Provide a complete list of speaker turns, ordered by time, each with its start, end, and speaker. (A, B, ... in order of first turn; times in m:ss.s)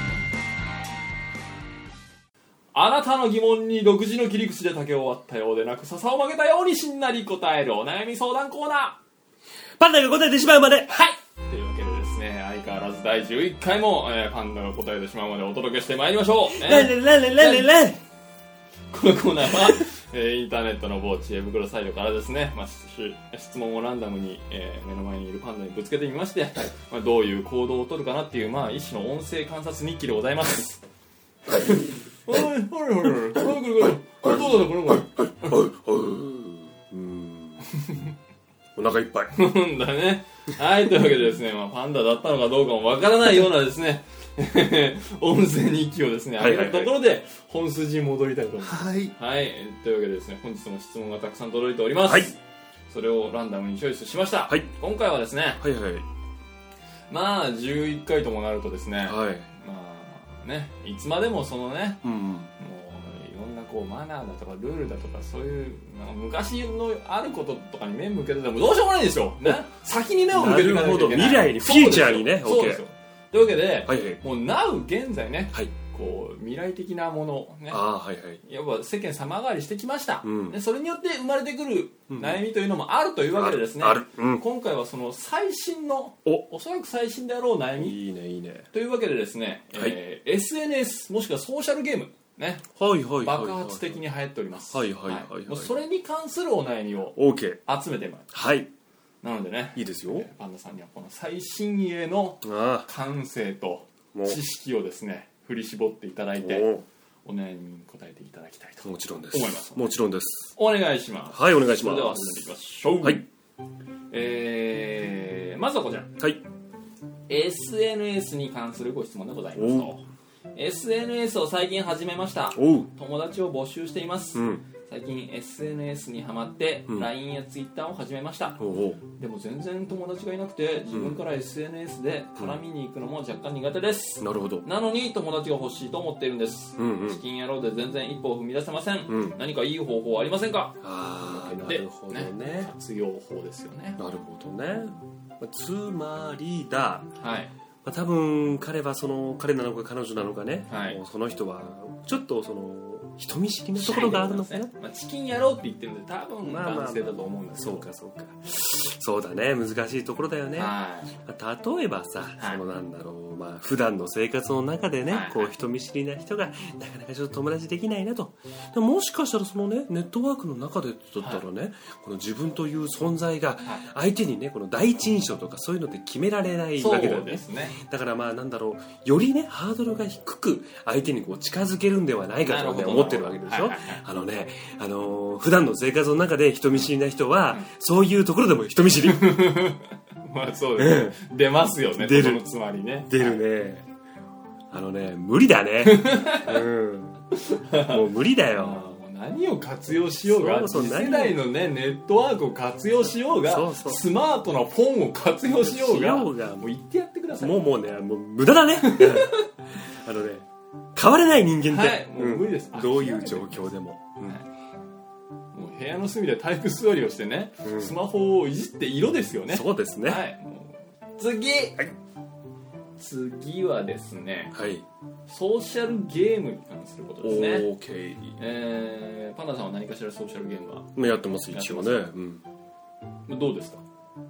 0:02.7-0:09.0 A
0:09.8-0:11.0 B
0:10.9-0:17.7 A
0:16.6-0:18.0 B
0:18.9-0:30.8 A
0:31.5-0:35.7 A
0:35.4-0:37.7 B
0:37.7-0:38.1 A
0:38.8-0:39.4 B
0:39.3-0:52.4 A
0:46.4-0:47.0 B
0:48.6-0:49.1 B
0:52.1-0:52.3 B
0:52.9-0:55.6 A
0:55.6-0:56.1 B
0:57.1-1:02.0 A
0:59.0-0:59.5 B
1:02.0-1:02.5 B
1:02.6-1:17.8 A
1:10.3-1:12.8 B
1:13.9-1:14.2 B
1:17.7-1:18.4 B
1:18.4-1:28.0 A
1:20.2-1:20.6 B
1:22.1-1:22.4 B
1:23.3-1:24.4 B
1:27.8-1:28.7 B
1:28.7-1:32.7 A
1:32.8-1:34.0 B
1:33.2-1:38.3 A
1:34.7-1:35.7 B
1:37.2-1:37.6 B
1:38.3-1:38.7 B
1:39.2-1:46.7 A
1:39.8-1:40.3 B
1:42.4-1:42.9 B
1:44.1-1:44.4 B
1:46.4-1:46.8 B
1:47.2-1:49.9 A
1:48.8-1:50.5 B
1:50.5-1:53.3 A
1:51.3-1:52.5 B
1:54.1-1:56.2 A
1:57.3-2:00.0 A
1:59.6-1:59.9 B
2:00.5-2:24.0 A
2:02.5-2:02.9 B
2:04.3-2:04.6 B
2:08.6-2:09.0 B
2:10.9-2:11.2 B
2:14.2-2:14.7 B
2:16.8-2:17.2 B
2:19.1-2:19.4 B
2:20.8-2:22.7 B
2:24.0-2:27.1 B
2:27.2-2:27.5 A
2:27.8-2:34.7 B
2:30.7-2:31.0 A
2:33.8-2:37.9 A
2:36.4-3:09.4 B
2:40.6-2:41.2 A
2:45.1-2:45.5 A
2:56.8-2:57.8 A
3:02.5-3:04.0 A
3:09.0-3:13.4 A
3:10.8-3:11.2 B
3:11.9-3:12.4 B
3:13.1-3:13.8 B
3:14.7-3:18.8 B
3:15.8-3:16.6 A
3:17.3-3:27.7 A
3:20.2-3:21.4 B
3:23.2-3:24.1 B
3:25.6-3:26.7 B
3:27.4-3:34.4 B
3:28.8-3:29.5 A
3:31.7-3:33.7 A
3:35.5-3:41.8 A
3:37.6-3:37.9 B
3:39.5-3:40.2 B
3:43.0-3:44.5 A
3:44.5-3:44.8 B
3:45.3-3:47.7 A
3:47.2-3:48.4 B
3:48.4-3:52.1 A
3:51.0-3:52.4 B
3:53.3-3:53.8 A